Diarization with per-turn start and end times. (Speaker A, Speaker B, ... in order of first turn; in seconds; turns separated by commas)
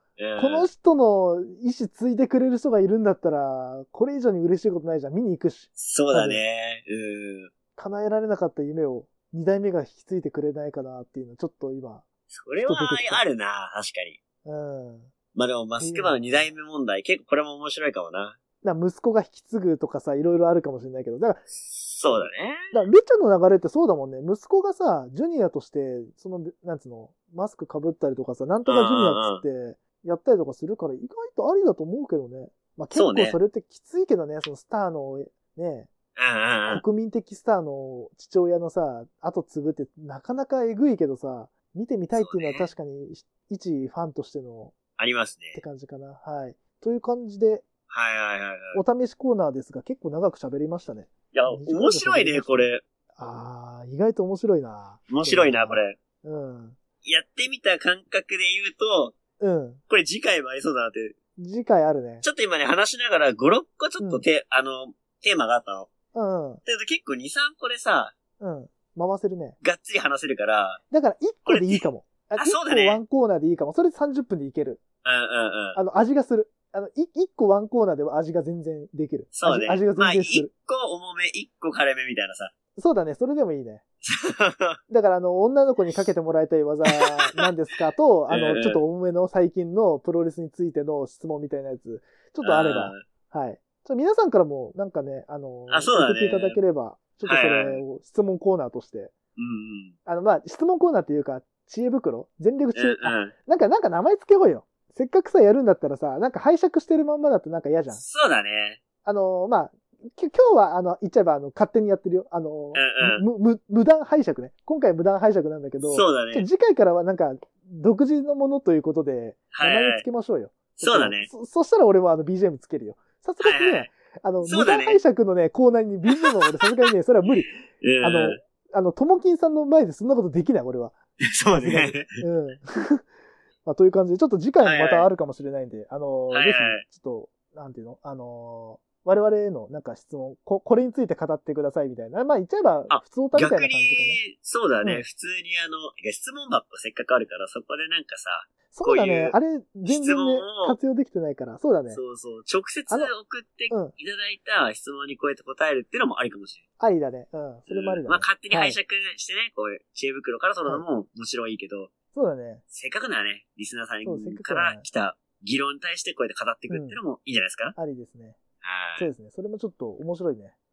Speaker A: 0.2-0.7, Speaker B: 0.3-6.4, Speaker A: 5.8-7.5, Speaker B: 7.8-12.0, Speaker A: 12.3-14.2, Speaker B: 12.6-13.2, Speaker B: 14.4-15.1, Speaker A: 15.3-18.4, Speaker B: 15.8-16.5, Speaker B: 18.6-21.5, Speaker A: 21.8-22.6, Speaker B: 22.1-35.9, Speaker A: 28.6-29.4, Speaker A: 32.9-33.4, Speaker A: 36.1-36.8, Speaker B: 36.7-44.7, Speaker A: 42.1-42.7, Speaker A: 45.0-45.6, Speaker B: 45.5-47.6, Speaker A: 47.9-48.8, Speaker B: 48.7-56.8, Speaker A: 51.3-52.8, Speaker A: 55.1-56.0, Speaker A: 57.0-59.1, Speaker B: 59.4-59.8, Speaker A: 59.9-61.1, Speaker B: 61.4-62.2, Speaker A: 62.2-65.9, Speaker B: 64.0-64.2, Speaker B: 66.1-66.6, Speaker A: 66.6-68.1, Speaker B: 68.4-69.6, Speaker A: 69.6-70.8, Speaker B: 70.9-74.8, Speaker A: 71.5-71.8, Speaker A: 72.3-73.0, Speaker A: 75.0-75.8, Speaker B: 75.7-80.5, Speaker A: 79.3-82.5, Speaker B: 82.8-83.8, Speaker A: 84.1-84.8, Speaker B: 84.9-99.1, Speaker A: 86.9-87.4, Speaker A: 88.3-88.8, Speaker A: 92.4-93.0, Speaker A: 95.7-96.6, Speaker A: 97.2-97.8, Speaker A: 99.3-99.9, Speaker B: 100.0-108.0, Speaker A: 102.7-103.3, Speaker A: 107.9-108.8, Speaker B: 109.0-131.0, Speaker A: 112.7-113.2, Speaker A: 115.9-116.5, Speaker A: 119.5-120.0, Speaker A: 120.8-121.3, Speaker A: 123.4-123.9, Speaker A: 124.4-125.0, Speaker A: 127.8-128.4, Speaker A: 131.2-132.2, Speaker B: 131.5-133.0, Speaker B: 133.6-144.2, Speaker A: 134.6-135.1, Speaker A: 136.3-136.8, Speaker A: 142.9-150.8, Speaker B: 148.7-152.0, Speaker A: 151.9-156.6, Speaker B: 156.8-158.8, Speaker A: 157.7-161.9, Speaker B: 162.1-162.6, Speaker A: 162.7-167.7, Speaker B: 164.0-164.8, Speaker B: 166.7-167.0, Speaker B: 167.8-168.4, Speaker A: 168.6-169.1, Speaker B: 168.9-170.6